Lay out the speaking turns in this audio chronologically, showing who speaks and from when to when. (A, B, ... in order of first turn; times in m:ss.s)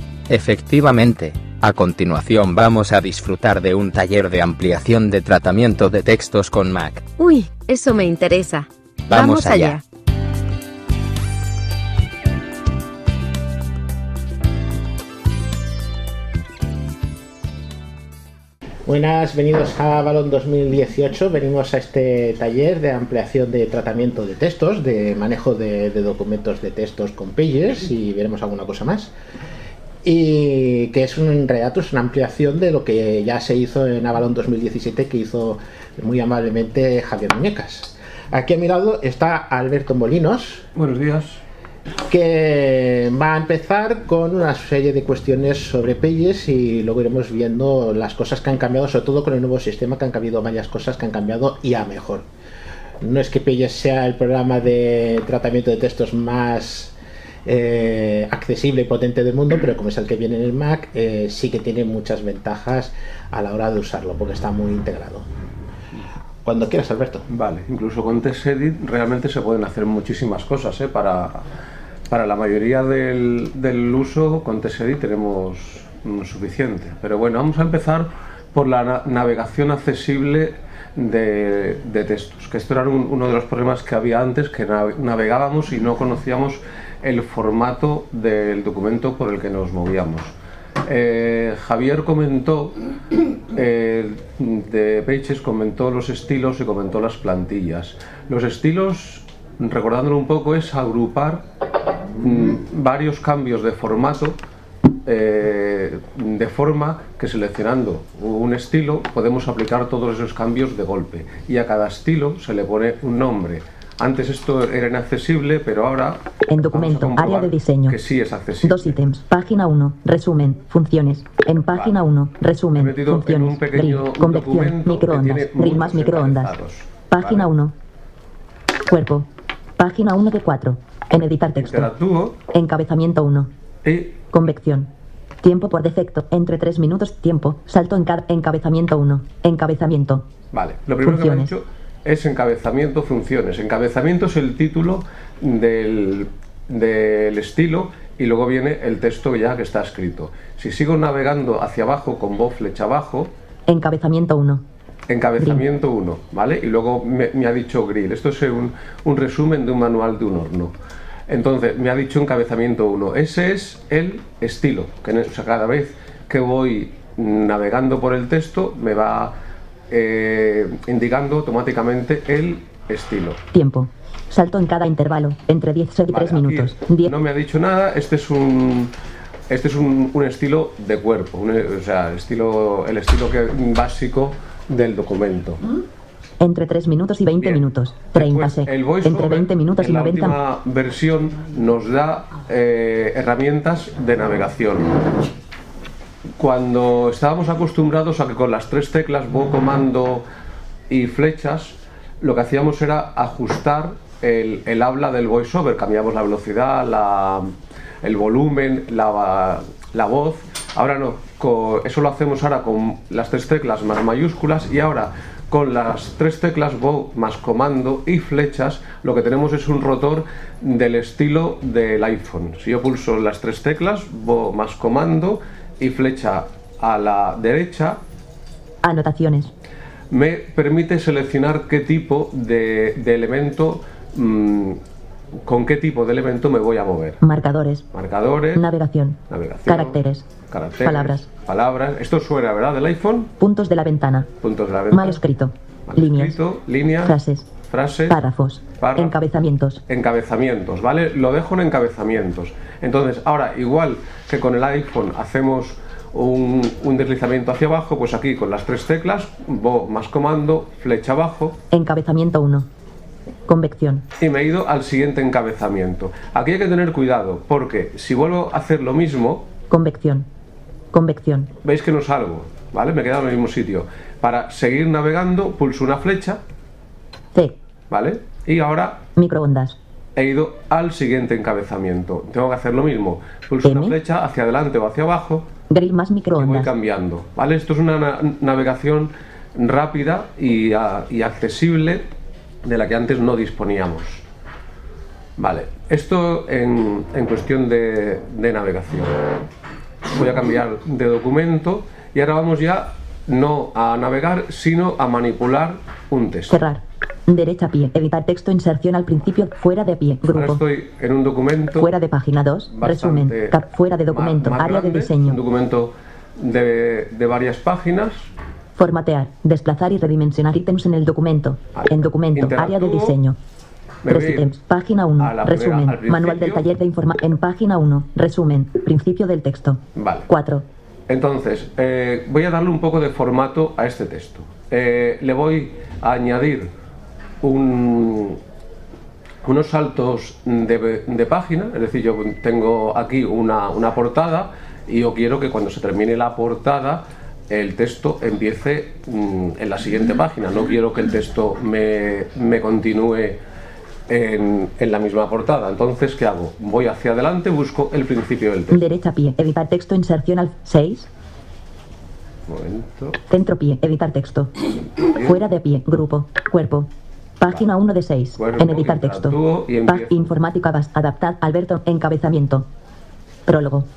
0:00.3-0:07.1 A
0:07.2-0:09.8 B
0:09.1-0:09.8 A
0:18.8-0:29.1 C
0:30.0-0:40.6 C
0:40.7-0:41.4 D
0:42.1-0:52.2 C
0:53.0-1:05.3 C
1:06.4-1:07.3 C
1:07.3-1:11.4 D
1:12.1-1:30.3 D
1:30.8-1:32.8 D
1:33.5-1:41.4 D
1:42.2-1:44.4 D
1:45.0-1:59.0 D
1:56.5-1:58.0 E
1:58.6-2:06.5 E
2:02.8-2:07.5 D
2:07.1-2:07.7 E
2:08.9-2:09.3 E
2:09.8-2:11.9 E
2:11.6-2:12.4 D
2:12.5-2:13.5 E
2:13.8-2:14.2 D
2:14.3-2:14.9 E
2:15.4-2:20.2 E
2:20.5-2:33.3 D
2:21.0-2:21.5 E
2:33.7-2:34.6 E
2:35.1-2:40.7 D
2:35.4-2:35.6 E
2:41.3-2:49.3 D
2:49.9-2:53.4 D
2:53.5-2:57.1 E
2:56.1-2:58.9 D
2:59.5-3:05.6 D
3:06.4-3:10.4 E
3:07.4-3:15.0 D
3:16.4-3:20.2 D
3:20.9-3:48.0 D
3:48.8-3:49.5 E
3:50.1-3:54.8 D
3:55.4-3:57.2 D
3:57.2-3:57.8 E
3:57.9-3:58.6 D
3:58.5-4:00.3 E
3:59.3-4:03.3 D
4:00.8-4:01.3 E
4:03.4-4:04.3 E
4:04.4-4:05.2 D
4:04.9-4:06.4 E
4:05.9-4:07.2 D
4:07.0-4:07.5 E
4:07.7-4:08.2 D
4:08.1-4:09.8 E
4:08.8-4:09.1 D
4:09.9-4:21.6 D
4:21.7-4:22.7 E
4:23.5-4:24.0 E
4:24.2-4:29.4 D
4:29.7-4:30.3 E
4:30.9-4:31.5 E
4:31.6-4:36.4 D
4:37.9-4:39.0 D
4:39.2-4:39.8 E
4:40.2-4:45.5 D
4:43.6-4:44.0 E
4:45.7-4:46.7 E
4:46.4-4:52.0 D
4:52.6-4:54.2 D
4:55.4-4:59.4 D
5:00.1-5:06.5 D
5:06.5-5:10.6 E
5:10.3-5:11.9 D
5:11.8-5:15.4 E
5:12.7-5:13.6 D
5:14.1-5:18.3 D
5:18.7-5:23.4 E
5:21.7-5:23.2 D
5:24.0-5:24.5 D
5:24.1-5:30.6 E
5:25.2-5:26.6 D
5:29.9-5:30.3 D
5:31.1-5:36.7 D
5:37.4-5:38.4 D
5:39.4-5:53.4 D
5:54.1-5:58.8 D
5:58.7-6:01.1 E
6:02.5-6:03.2 D
6:03.3-6:04.5 E
6:05.2-6:06.9 E
6:07.4-6:12.6 E
6:08.4-6:10.3 D
6:13.5-6:13.9 E